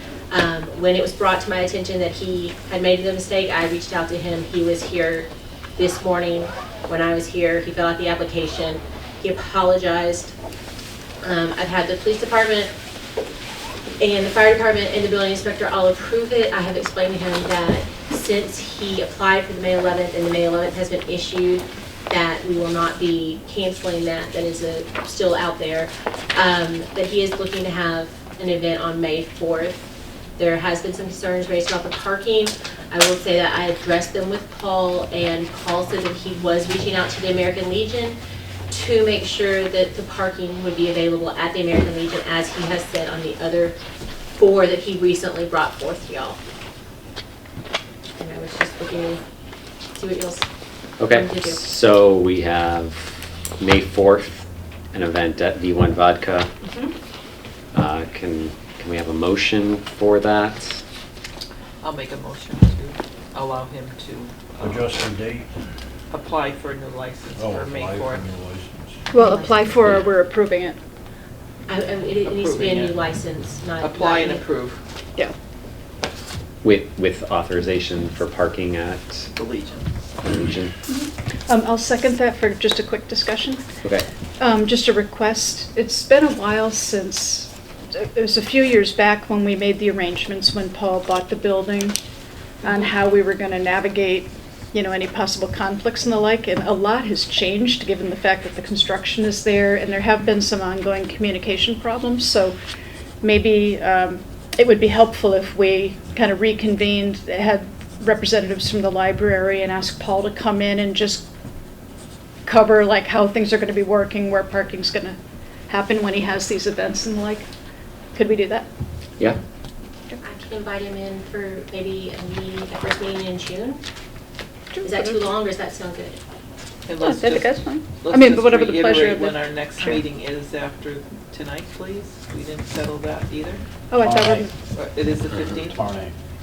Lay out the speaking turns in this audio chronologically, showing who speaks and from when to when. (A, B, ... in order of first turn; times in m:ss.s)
0:00.3-0:10.4 A
0:11.2-0:12.7 A
0:14.0-0:38.2 A
0:38.7-0:43.8 A
0:44.3-0:46.4 A
0:48.2-0:49.2 A
0:50.0-0:50.5 A
0:51.0-0:56.5 B
0:51.1-0:51.6 A
0:57.7-1:00.8 B
1:01.8-1:04.9 C
1:04.6-1:05.5 D
1:06.1-1:08.3 C
1:07.4-1:09.0 D
1:09.1-1:10.8 E
1:09.2-1:10.0 A
1:11.7-1:14.4 A
1:12.2-1:13.0 C
1:13.8-1:14.8 C
1:16.6-1:19.3 B
1:19.4-1:19.8 C
1:20.2-1:20.7 B
1:20.9-1:23.6 E
1:24.4-1:32.0 E
1:32.6-1:42.6 E
1:43.2-1:51.3 E
1:52.4-1:55.2 E
1:55.7-1:57.5 E
1:58.2-1:58.7 E
2:00.2-2:03.8 A
2:04.7-2:05.2 E
2:04.8-2:06.2 A
2:06.9-2:13.6 C
2:07.0-2:10.0 E
2:13.9-2:14.5 E
2:14.0-2:14.5 D
2:14.7-2:15.9 C
2:15.5-2:16.1 D